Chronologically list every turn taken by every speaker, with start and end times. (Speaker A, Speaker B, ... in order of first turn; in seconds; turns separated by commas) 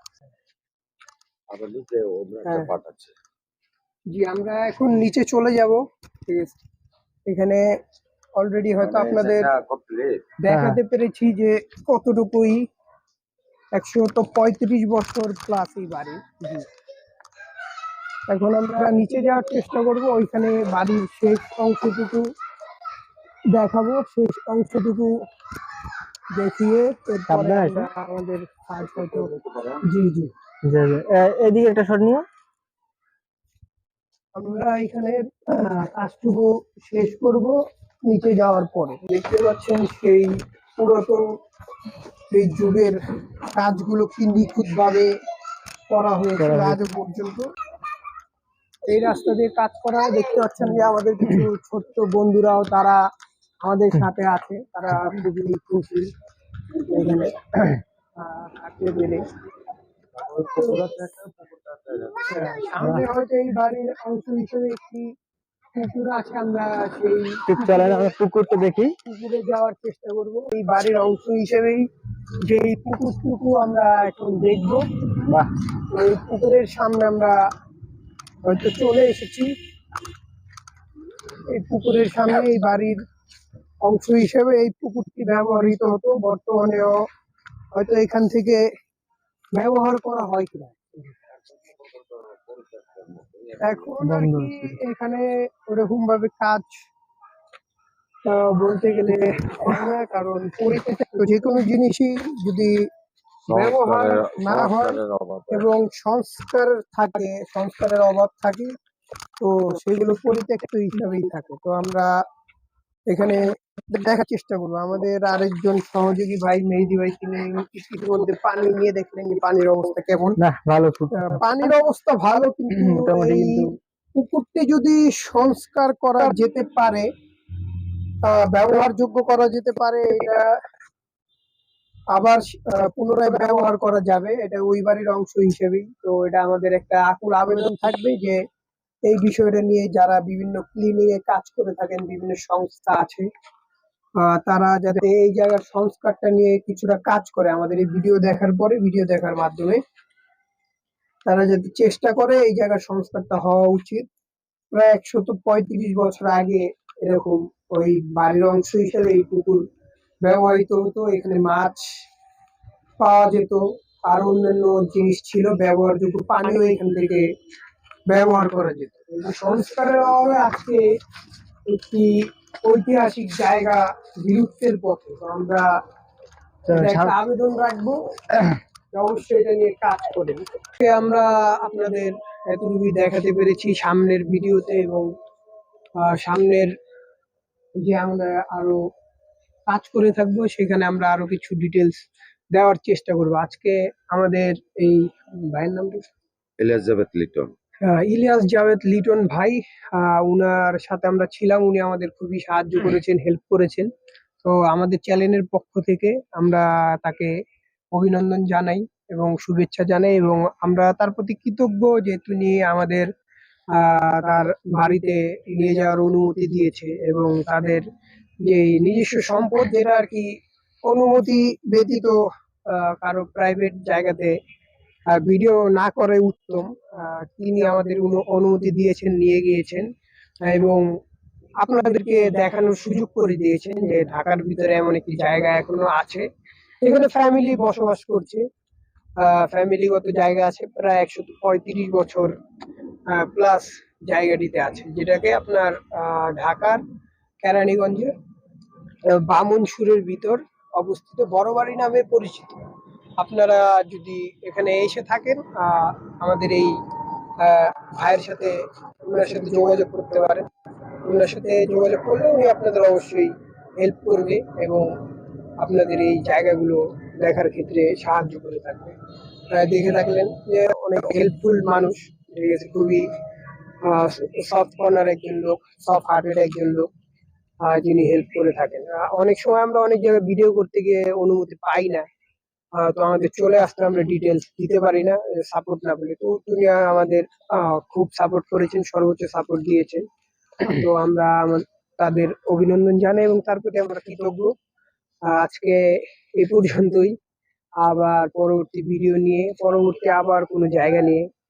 Speaker A: 1.5-3.1, Speaker B: 2.5-2.7, Speaker B: 4.1-6.6, Speaker B: 7.2-7.6, Speaker B: 8.4-9.5, Speaker A: 8.8-10.3, Speaker B: 10.4-12.6, Speaker C: 10.5-10.8, Speaker B: 13.7-16.7, Speaker B: 18.3-22.3, Speaker B: 23.5-25.1, Speaker B: 26.3-30.3, Speaker C: 27.3-27.9, Speaker A: 29.3-29.6, Speaker C: 30.6-32.3, Speaker B: 34.3-41.3, Speaker B: 42.3-43.0, Speaker B: 43.5-45.1, Speaker B: 45.9-47.5, Speaker C: 46.4-46.8, Speaker B: 48.9-53.0, Speaker B: 53.6-56.1, Speaker C: 55.0-56.0, Speaker B: 56.8-59.2, Speaker A: 60.3-62.3, Speaker B: 62.2-65.1, Speaker C: 62.8-63.0, Speaker B: 65.7-68.1, Speaker C: 67.5-68.9, Speaker B: 69.0-71.8, Speaker B: 72.4-74.8, Speaker B: 75.8-77.3, Speaker B: 78.4-79.5, Speaker B: 81.5-83.0, Speaker B: 83.8-87.0, Speaker B: 87.7-88.6, Speaker B: 89.5-91.2, Speaker A: 91.6-93.9, Speaker B: 93.6-96.8, Speaker C: 94.0-94.7, Speaker B: 98.2-102.9, Speaker A: 103.5-105.7, Speaker B: 103.5-108.7, Speaker B: 109.4-112.1, Speaker B: 113.1-120.4, Speaker C: 120.4-121.4, Speaker B: 121.1-127.1, Speaker C: 122.7-123.7, Speaker B: 128.2-130.5, Speaker B: 132.1-138.4, Speaker B: 139.0-143.3, Speaker B: 144.2-149.8, Speaker B: 151.2-154.1, Speaker B: 154.7-159.6, Speaker B: 160.2-161.9, Speaker B: 163.0-167.2, Speaker B: 168.1-170.8, Speaker B: 171.7-175.7, Speaker C: 176.6-177.1, Speaker B: 176.7-178.0, Speaker C: 178.3-178.6, Speaker B: 178.9-185.1, Speaker B: 186.0-186.7, Speaker B: 187.8-188.8, Speaker B: 189.7-191.9, Speaker B: 192.5-196.1, Speaker A: 196.6-197.5, Speaker B: 197.8-203.9, Speaker B: 204.4-207.3, Speaker B: 207.9-213.1, Speaker B: 213.7-217.8, Speaker B: 218.4-220.3, Speaker B: 220.8-222.2, Speaker B: 222.7-224.3, Speaker B: 225.1-229.8, Speaker B: 230.4-230.8, Speaker B: 231.6-236.3, Speaker B: 236.8-238.4, Speaker B: 239.2-242.3, Speaker B: 243.1-246.8, Speaker B: 247.4-248.1, Speaker B: 249.1-252.6, Speaker B: 253.2-256.7, Speaker B: 257.4-260.5, Speaker B: 261.0-264.9, Speaker B: 265.6-268.9, Speaker B: 269.5-273.1, Speaker B: 273.8-276.9, Speaker B: 277.6-282.0, Speaker B: 282.8-290.0, Speaker B: 290.6-294.5, Speaker B: 295.3-297.1, Speaker B: 297.8-301.3